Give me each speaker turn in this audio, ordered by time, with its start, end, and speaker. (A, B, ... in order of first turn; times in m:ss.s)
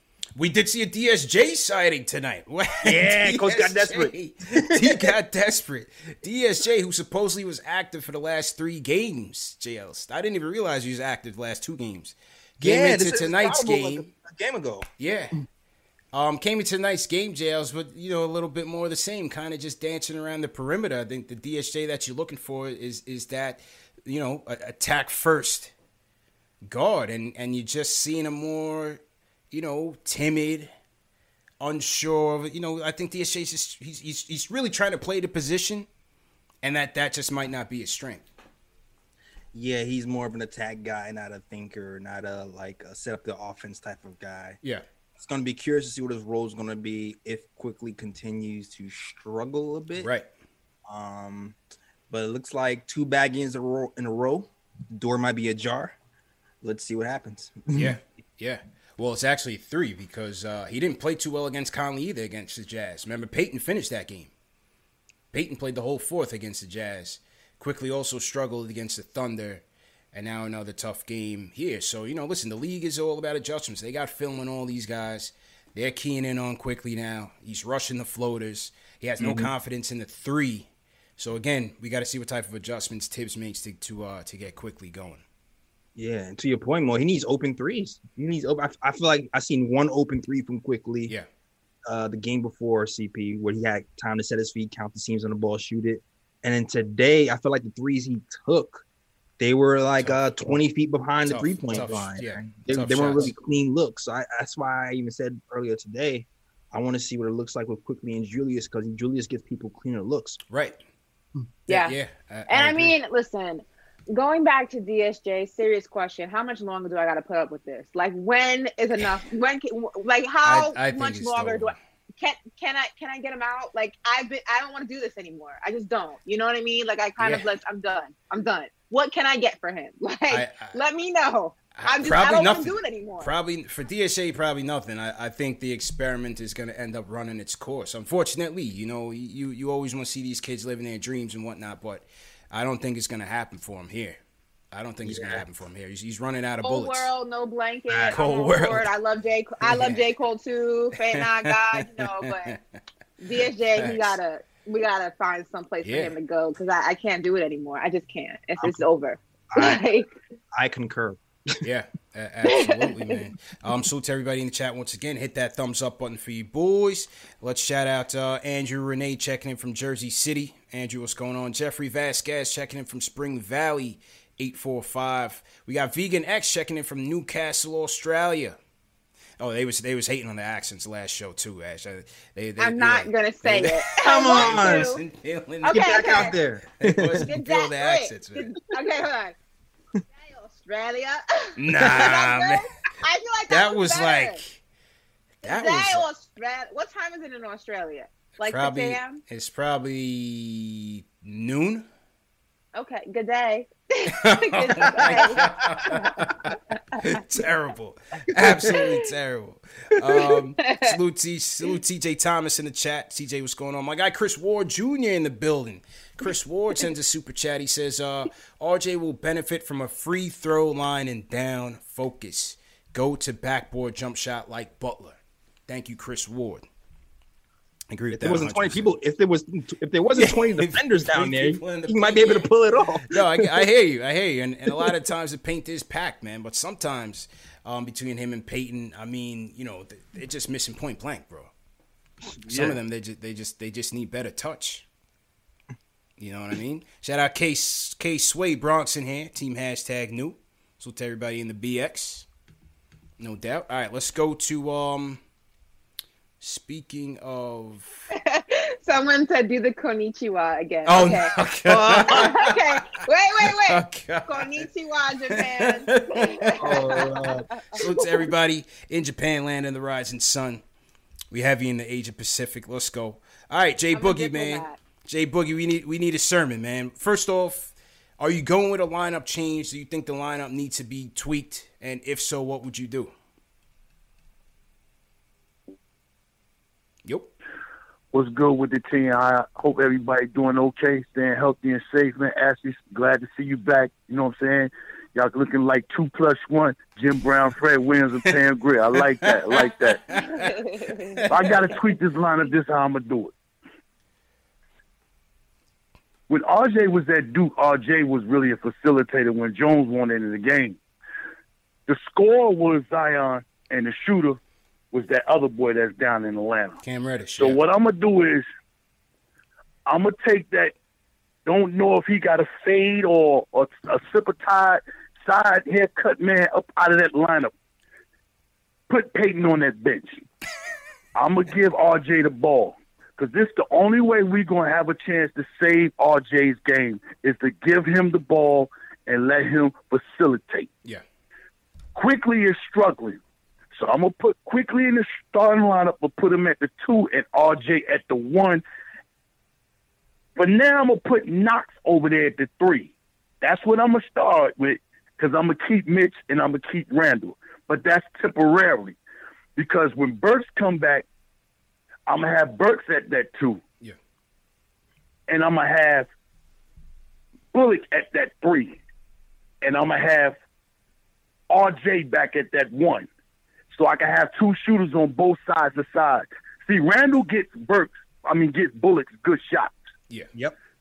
0:00.4-0:14.1 A
0:02.8-0:04.1 B
0:04.7-0:05.1 B
0:12.6-0:14.8 B
0:15.0-0:15.4 A
0:16.1-0:25.7 A
0:26.6-0:29.0 A
0:29.5-0:30.7 A
0:31.6-0:35.9 A
0:36.6-0:38.2 A
0:39.5-0:44.6 B
0:45.2-0:50.1 B
0:50.0-0:50.2 A
0:50.9-0:51.6 B
0:52.1-0:56.0 B
0:56.6-0:58.0 B
0:57.7-1:04.3 A
1:05.3-1:25.2 A
1:19.2-1:19.5 B
1:26.0-1:31.1 B
1:31.9-1:38.8 B
1:39.4-1:50.4 B
1:40.0-1:40.6 A
1:41.3-1:43.3 A
1:50.5-1:50.8 A
1:51.7-1:52.9 A
1:51.7-1:52.0 C
1:52.5-2:13.3 C
2:00.4-2:01.8 A
2:07.2-2:07.5 A
2:10.3-2:10.8 A
2:11.7-2:24.2 A
2:24.7-2:27.1 A
2:25.0-2:25.4 B
2:26.6-2:32.5 C
2:27.9-2:28.2 B
2:28.1-2:28.9 A
2:29.6-2:30.0 A
2:31.1-2:32.6 A
2:33.2-2:40.1 C
2:33.7-2:34.2 A
2:35.8-2:36.1 A
2:39.5-2:39.8 B
2:40.6-2:41.6 B
2:41.6-2:58.6 A
2:42.5-2:42.9 C
2:59.4-3:08.5 A
3:02.6-3:05.0 C
3:04.0-3:04.9 B
3:05.6-3:06.3 C
3:05.7-3:07.2 B
3:07.2-3:09.3 C
3:10.2-3:14.4 C
3:11.6-3:12.6 A
3:13.5-3:14.6 A
3:15.4-3:16.0 A
3:15.4-3:19.2 C
3:18.4-3:21.8 A
3:22.7-3:26.2 C
3:24.2-3:46.6 A
3:28.4-3:28.7 B
3:30.6-3:30.9 C
3:47.9-3:48.9 A
3:48.1-3:53.6 B
3:50.1-3:52.5 A
3:53.1-4:01.5 A
4:02.4-4:02.8 B
4:02.5-4:04.8 A
4:06.2-4:12.2 A
4:13.2-4:15.2 A
4:16.4-4:18.0 A
4:18.1-4:21.3 C
4:20.8-4:22.6 A
4:21.6-4:22.5 B
4:22.1-4:27.9 C
4:23.6-4:24.7 A
4:25.3-4:30.6 A
4:26.6-4:28.0 B
4:31.3-4:43.1 A
4:33.9-4:34.8 C
4:47.0-4:47.3 A
4:48.1-5:00.0 D
4:59.2-5:00.6 A
5:00.3-5:01.2 C
5:01.2-5:01.7 A
5:01.3-5:03.3 D
5:06.3-5:10.8 D
5:11.9-5:14.4 D
5:14.9-5:16.8 D
5:16.8-5:17.6 A
5:17.4-5:18.5 D
5:19.8-5:20.7 D
5:21.4-5:27.5 D
5:28.9-5:30.2 D
5:31.1-5:40.7 D
5:41.9-5:43.2 D
5:43.7-5:48.6 D
5:50.4-5:59.0 D
5:59.6-6:01.0 D
6:02.1-6:03.6 D
6:05.3-6:06.1 D
6:07.5-6:08.8 D
6:09.6-6:10.4 D
6:11.5-6:13.1 D
6:13.7-6:19.8 D